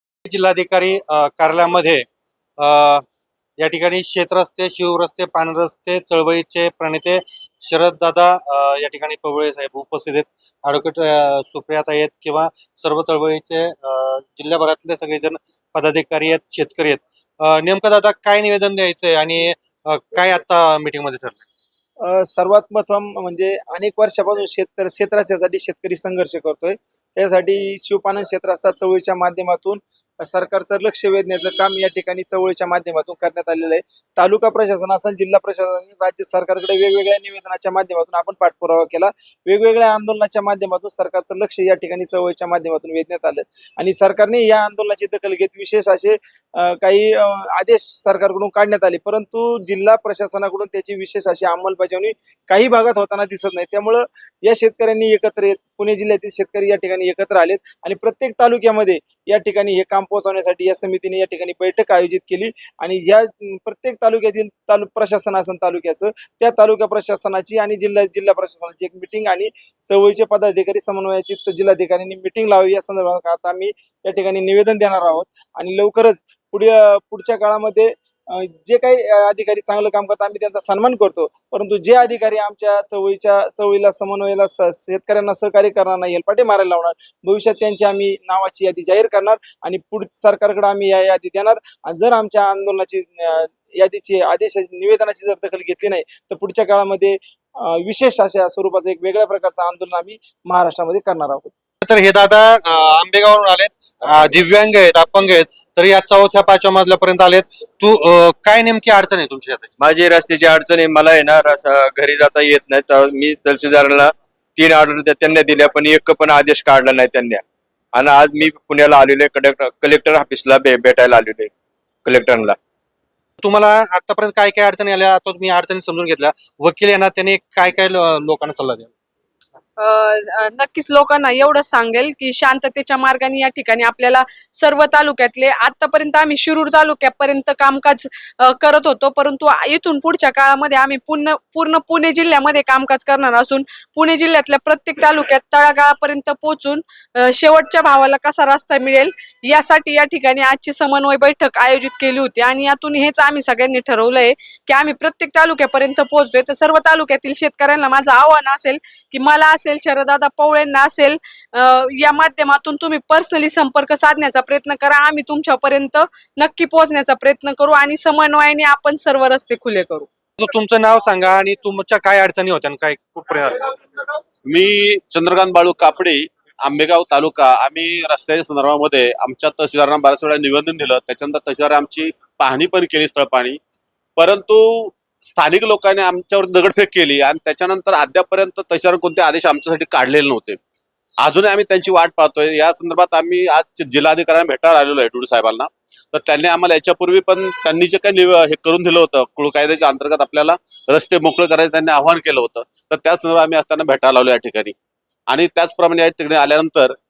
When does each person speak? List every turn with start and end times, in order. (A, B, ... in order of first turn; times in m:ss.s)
0:00.2-0:02.0 A
0:02.6-0:03.0 A
0:03.6-0:21.4 A
0:22.0-1:41.5 B
1:41.8-1:49.7 A
1:49.8-2:01.5 C
2:02.0-2:02.6 C
2:03.4-2:08.9 A
2:09.8-2:50.1 D
2:50.4-2:53.7 A
2:54.5-3:03.6 E
3:04.2-3:10.6 E
3:11.2-3:24.7 E
3:25.3-3:26.9 E